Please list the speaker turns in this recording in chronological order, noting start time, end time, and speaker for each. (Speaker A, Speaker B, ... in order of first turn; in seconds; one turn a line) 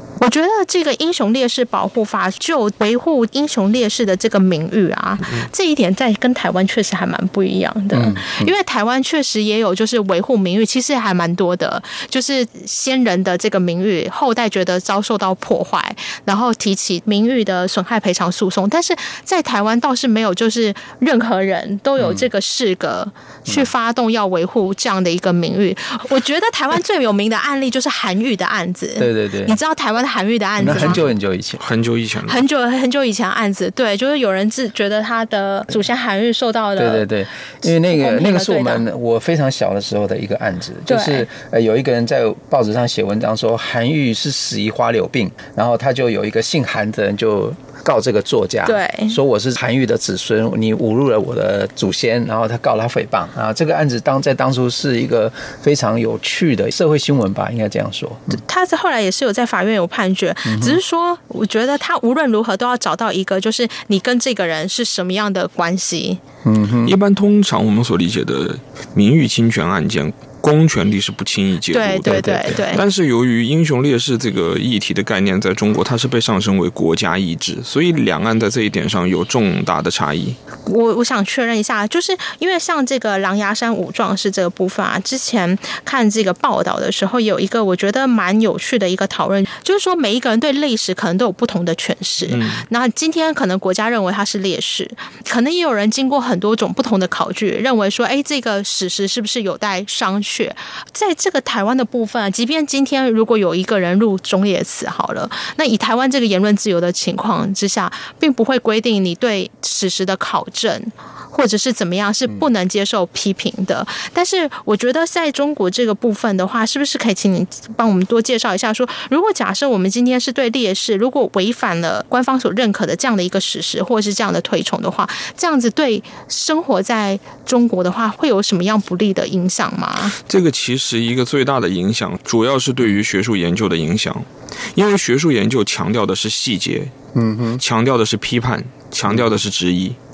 Speaker A: 0.2-31.0
Speaker B: 7.9-8.5
Speaker B: 22.0-22.2
Speaker B: 29.0-29.6
Speaker B: 30.6-31.6
Speaker C: 30.6-31.0
Speaker C: 31.6-32.4
Speaker A: 32.2-37.0
Speaker B: 36.8-58.4
Speaker A: 37.6-38.9
Speaker A: 40.9-41.3
Speaker A: 48.6-49.2
Speaker A: 58.3-66.2
Speaker B: 60.5-60.8
Speaker B: 66.4-67.0
Speaker C: 66.8-80.4
Speaker A: 71.7-72.8
Speaker A: 80.7-130.2
Speaker C: 92.2-92.6
Speaker C: 130.2-136.9
Speaker B: 137.1-137.6
Speaker C: 137.6-140.0